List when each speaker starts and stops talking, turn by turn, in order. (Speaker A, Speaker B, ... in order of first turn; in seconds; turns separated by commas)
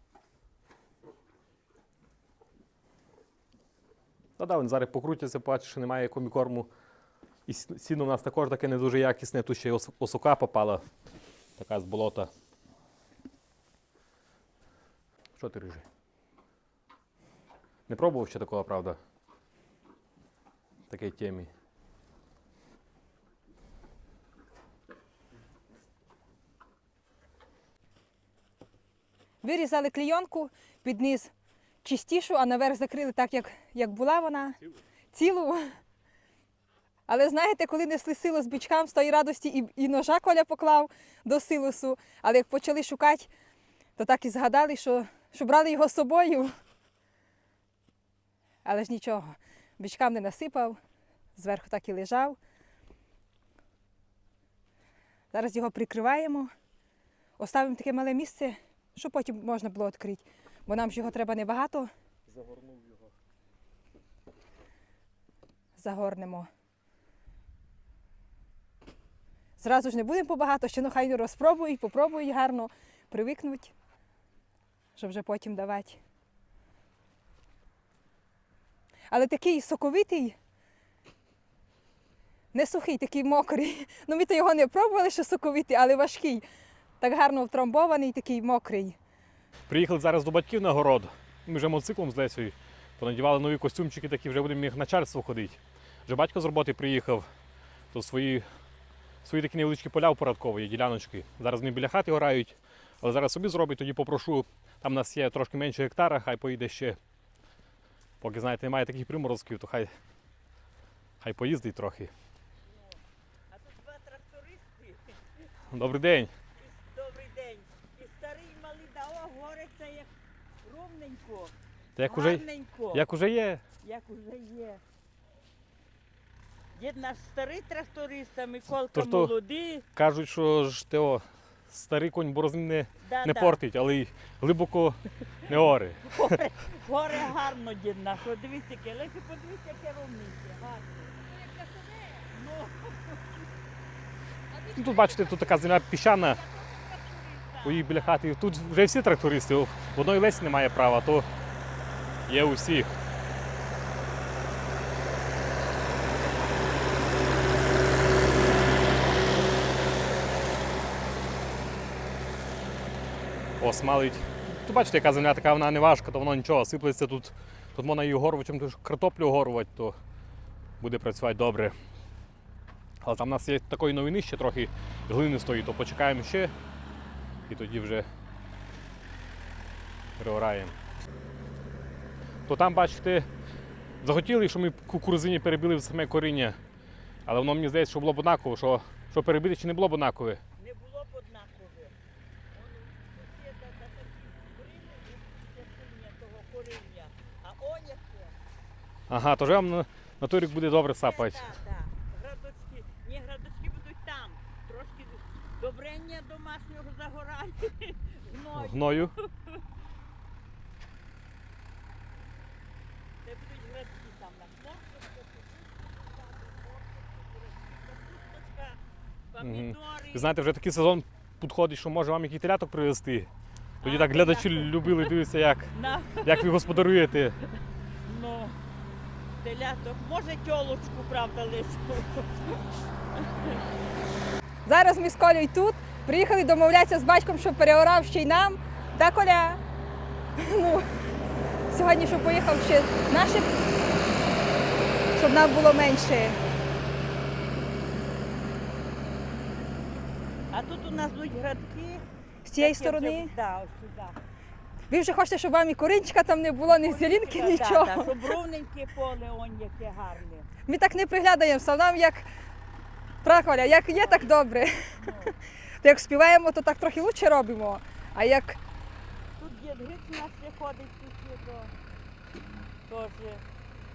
Speaker A: 4.4-6.7, Speaker A: 7.5-10.8, Speaker A: 11.6-12.3, Speaker A: 15.3-15.8, Speaker A: 17.9-19.0, Speaker A: 20.9-21.5, Speaker B: 29.4-31.3, Speaker B: 31.8-34.6, Speaker B: 35.1-35.7, Speaker B: 37.1-43.3, Speaker B: 44.0-46.5, Speaker B: 48.6-50.8, Speaker B: 51.4-52.4, Speaker B: 55.3-56.5, Speaker B: 57.4-61.9, Speaker A: 62.3-63.1, Speaker B: 65.8-66.5, Speaker B: 69.6-73.7, Speaker B: 75.0-76.0, Speaker B: 79.1-80.3, Speaker B: 82.5-86.4, Speaker B: 87.0-89.0, Speaker A: 89.7-97.3, Speaker A: 97.9-98.5, Speaker A: 99.2-107.0, Speaker A: 108.2-109.9, Speaker A: 111.2-112.1, Speaker C: 112.7-113.0, Speaker C: 113.5-115.3, Speaker A: 115.7-116.3, Speaker C: 116.6-120.1, Speaker C: 120.6-121.5, Speaker A: 122.0-123.6, Speaker C: 122.0-123.0, Speaker C: 123.8-124.8, Speaker C: 126.7-129.8, Speaker A: 128.9-129.3, Speaker A: 129.9-136.4, Speaker C: 133.0-133.6, Speaker C: 136.1-141.2, Speaker B: 141.3-142.0, Speaker C: 142.1-143.5, Speaker B: 144.6-144.8, Speaker A: 144.7-146.4, Speaker C: 146.2-148.1, Speaker A: 147.6-151.3, Speaker A: 152.3-152.9, Speaker A: 163.6-170.0, Speaker A: 170.8-171.7, Speaker A: 173.0-176.5, Speaker A: 177.5-178.1, Speaker A: 180.2-180.7, Speaker A: 182.5-183.3, Speaker A: 184.0-186.6, Speaker A: 187.2-190.4, Speaker C: 190.6-191.9, Speaker C: 192.5-198.3, Speaker A: 199.1-201.5, Speaker C: 201.0-209.6, Speaker A: 208.5-209.1, Speaker C: 213.2-218.8, Speaker C: 219.3-220.3, Speaker A: 219.4-223.3, Speaker A: 223.8-227.4, Speaker C: 223.8-225.1, Speaker C: 225.7-226.8, Speaker C: 228.0-228.6, Speaker C: 229.4-232.6, Speaker C: 233.1-233.6, Speaker B: 234.7-239.6, Speaker B: 240.4-240.8, Speaker B: 241.7-243.5, Speaker B: 245.1-246.4, Speaker C: 250.5-252.0, Speaker B: 252.4-253.3, Speaker C: 252.6-254.2, Speaker B: 254.9-258.2, Speaker C: 256.7-260.5, Speaker B: 260.7-262.3, Speaker B: 263.2-265.1, Speaker C: 263.9-264.2, Speaker C: 265.0-265.4, Speaker B: 265.8-268.6, Speaker C: 269.4-271.7, Speaker C: 272.9-273.4